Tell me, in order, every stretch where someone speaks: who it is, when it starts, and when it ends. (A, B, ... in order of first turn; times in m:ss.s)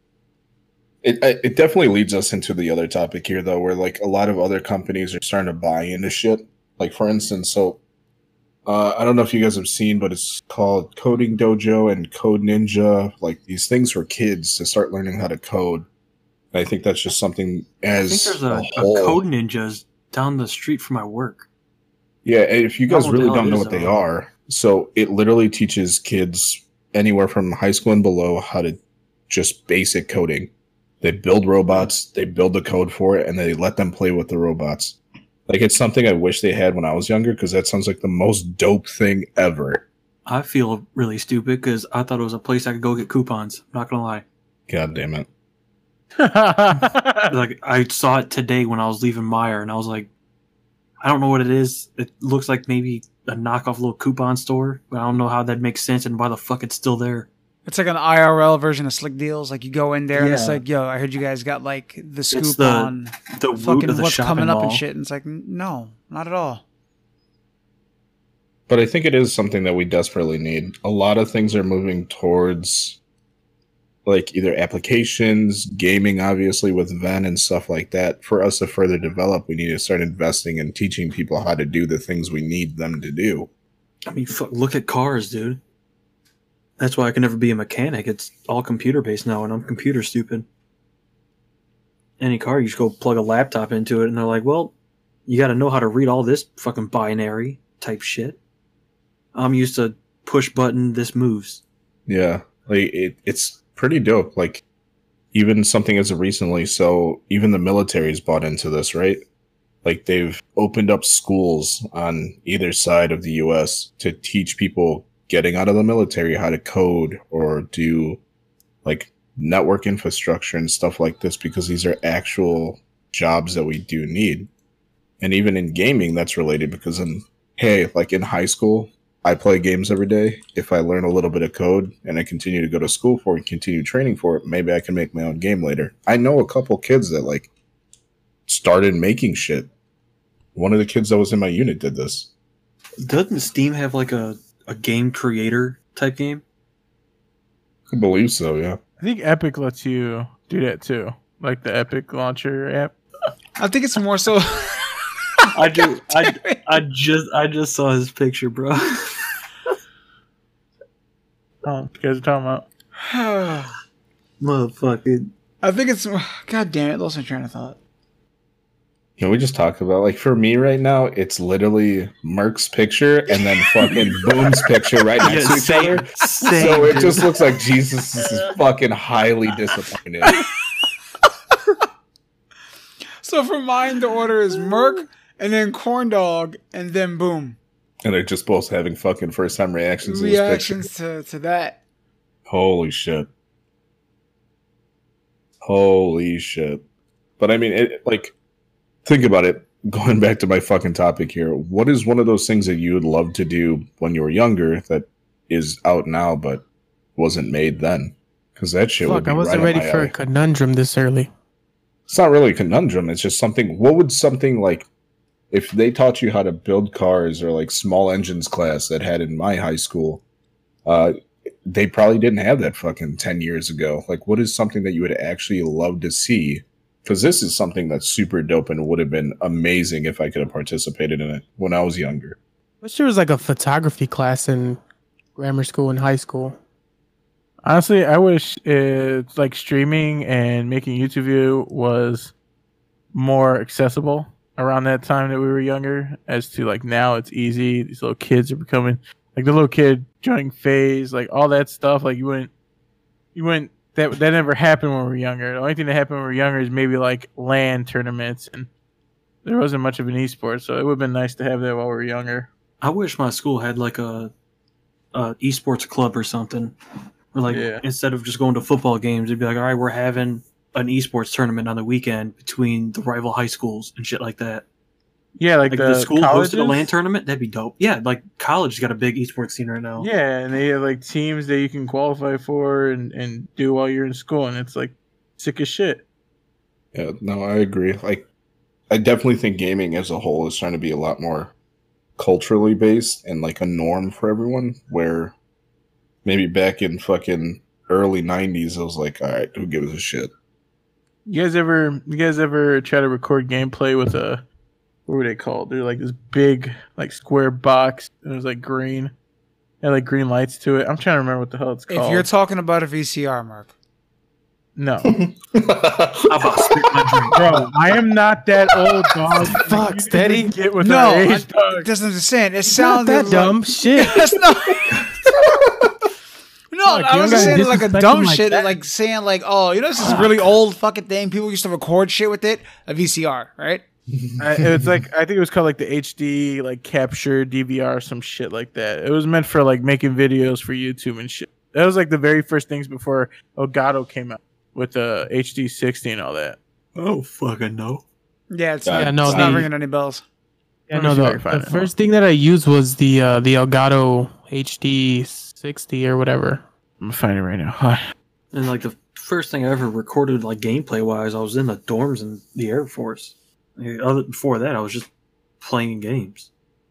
0:01.0-0:07.8 A
0:08.7-0:15.9 A
0:16.5-0:19.2 A
0:18.1-0:21.5 B
0:22.2-0:28.8 A
0:22.9-0:23.9 B
0:29.3-0:39.8 A
0:40.3-0:44.2 B
0:44.7-0:45.3 A
0:46.2-0:47.3 C
0:47.3-0:50.1 B
0:51.0-0:57.3 B
0:57.7-1:06.6 D
1:00.1-1:00.6 B
1:02.3-1:04.8 B
1:08.7-1:13.0 A
1:14.1-1:23.5 A
1:24.1-1:25.6 B
1:26.8-1:30.5 B
1:32.2-1:34.7 B
1:35.3-1:38.4 B
1:39.4-1:41.6 B
1:42.1-1:44.6 A
1:45.3-1:49.2 A
1:49.8-1:58.2 A
1:58.8-2:04.5 A
2:05.2-2:17.5 A
2:18.5-2:19.7 A
2:20.6-2:22.3 A
2:23.0-2:26.4 B
2:27.9-2:28.8 A
2:29.0-2:33.0 C
2:33.6-2:35.1 D
2:35.5-2:39.4 B
2:36.1-2:36.6 D
2:41.6-2:42.6 C
2:43.0-2:43.7 D
2:44.4-2:45.3 B
2:45.6-2:47.8 D
2:49.2-2:56.0 A
2:53.8-2:54.2 D
2:55.2-2:57.3 B
2:56.6-3:00.4 A
2:56.6-2:57.0 D
3:03.2-3:07.6 D
3:08.0-3:10.9 A
3:10.0-3:11.8 D
3:12.5-3:13.3 A
3:15.6-3:16.8 A
3:17.4-3:18.3 A
3:19.0-3:26.6 A
3:27.2-3:30.1 A
3:29.0-3:31.3 E
3:32.1-3:34.9 A
3:35.5-3:40.2 A
3:40.8-3:52.4 A
3:52.8-3:54.8 E
3:55.4-3:56.6 E
3:57.6-4:02.3 C
4:03.1-4:12.5 C
4:13.4-4:18.7 C
4:19.4-4:22.5 C
4:22.8-4:24.3 B
4:25.1-4:26.8 B
4:27.3-4:34.6 B
4:27.5-4:27.8 C
4:35.4-4:36.9 C
4:35.7-4:40.1 B
4:40.0-4:46.0 C
4:46.9-4:48.2 A
4:48.9-4:51.5 A
4:52.2-4:55.3 A
4:56.2-5:00.3 A
5:01.3-5:04.4 C
5:05.1-5:09.1 C
5:09.8-5:12.3 C
5:11.9-5:13.7 D
5:14.8-5:15.2 C
5:15.0-5:17.6 A
5:16.3-5:17.4 B
5:17.3-5:21.9 C
5:18.8-5:19.2 A
5:19.6-5:20.5 E
5:20.8-5:25.7 D
5:22.7-5:24.3 E
5:24.8-5:26.1 A
5:26.7-5:33.8 D
5:26.8-5:28.8 E
5:27.3-5:27.6 C
5:34.1-5:34.9 A
5:34.4-5:46.6 C
5:47.0-5:48.0 B
5:48.5-5:50.2 D
5:48.8-5:49.7 A
5:48.9-5:49.7 E
5:50.9-5:51.9 C
5:50.9-5:56.6 E
5:57.0-5:58.0 C
5:58.5-6:05.1 B
6:05.6-6:06.5 B